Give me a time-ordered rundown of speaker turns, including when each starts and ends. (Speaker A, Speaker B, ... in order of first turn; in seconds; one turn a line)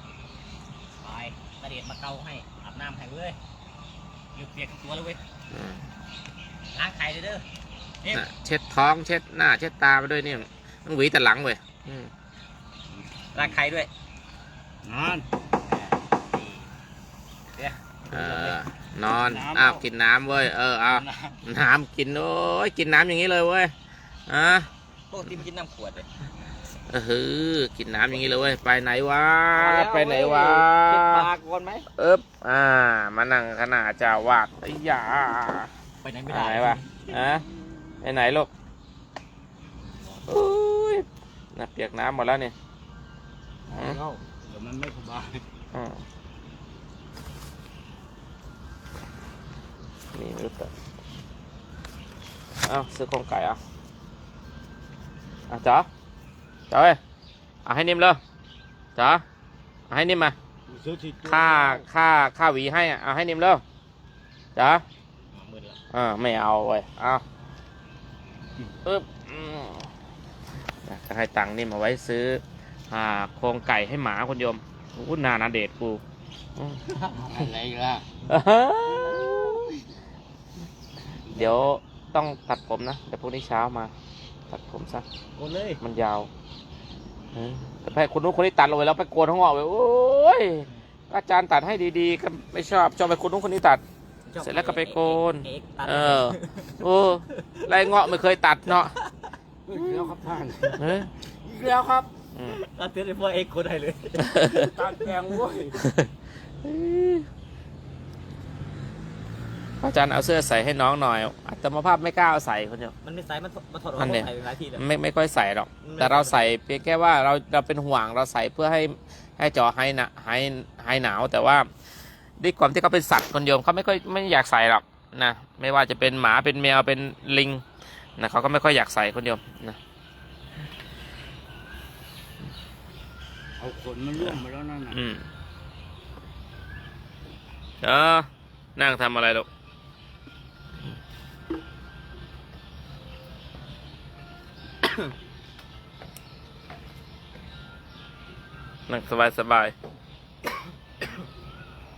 Speaker A: 1.0-3.4
Speaker A: 4.3-5.2
Speaker B: 5.5-5.8
Speaker A: 6.7-7.4
Speaker B: 8.1-12.1
Speaker C: 12.9-13.6
Speaker A: 13.3-13.9
Speaker C: 14.8-15.3
Speaker A: 15.7-16.7
Speaker B: 18.1-23.7
Speaker C: 18.1-19.8
Speaker C: 20.9-21.4
Speaker B: 24.3-24.7
Speaker A: 25.1-26.1
Speaker B: 26.9-31.3
Speaker A: 29.5-31.9
Speaker B: 31.9-35.7
Speaker A: 36.0-37.0
Speaker B: 36.3-37.5
Speaker B: 38.0-38.5
Speaker B: 40.3-42.5
Speaker C: 43.7-45.4
Speaker B: 45.7-46.0
Speaker B: 50.1-50.7
Speaker B: 52.6-53.6
Speaker B: 55.5-55.9
Speaker B: 56.7-57.0
Speaker B: 57.6-58.2
Speaker B: 59.0-59.2
Speaker B: 59.9-60.4
Speaker C: 60.7-61.9
Speaker B: 61.2-63.6
Speaker B: 64.5-64.8
Speaker A: 65.3-65.8
Speaker B: 65.9-67.2
Speaker B: 68.8-69.9
Speaker B: 70.8-76.0
Speaker A: 76.9-77.2
Speaker C: 77.1-78.2
Speaker B: 78.3-79.7
Speaker B: 81.3-83.9
Speaker B: 84.5-85.0
Speaker A: 85.3-85.8
Speaker B: 85.8-86.3
Speaker B: 87.3-93.8
Speaker A: 94.3-96.8
Speaker B: 94.4-98.9
Speaker A: 97.3-97.6
Speaker A: 98.7-99.3
Speaker C: 99.7-102.1
Speaker B: 99.8-100.1
Speaker B: 100.8-101.1
Speaker A: 101.5-104.5
Speaker B: 102.3-102.6
Speaker B: 104.2-104.7
Speaker C: 104.5-105.8
Speaker B: 105.8-106.1
Speaker B: 106.6-107.3
Speaker B: 109.8-112.9
Speaker A: 113.0-114.8
Speaker B: 114.0-121.7
Speaker A: 115.8-116.5
Speaker B: 122.4-127.6
Speaker B: 128.2-129.8
Speaker C: 133.6-135.0
Speaker B: 134.9-135.3
Speaker B: 137.8-139.5
Speaker B: 148.9-149.7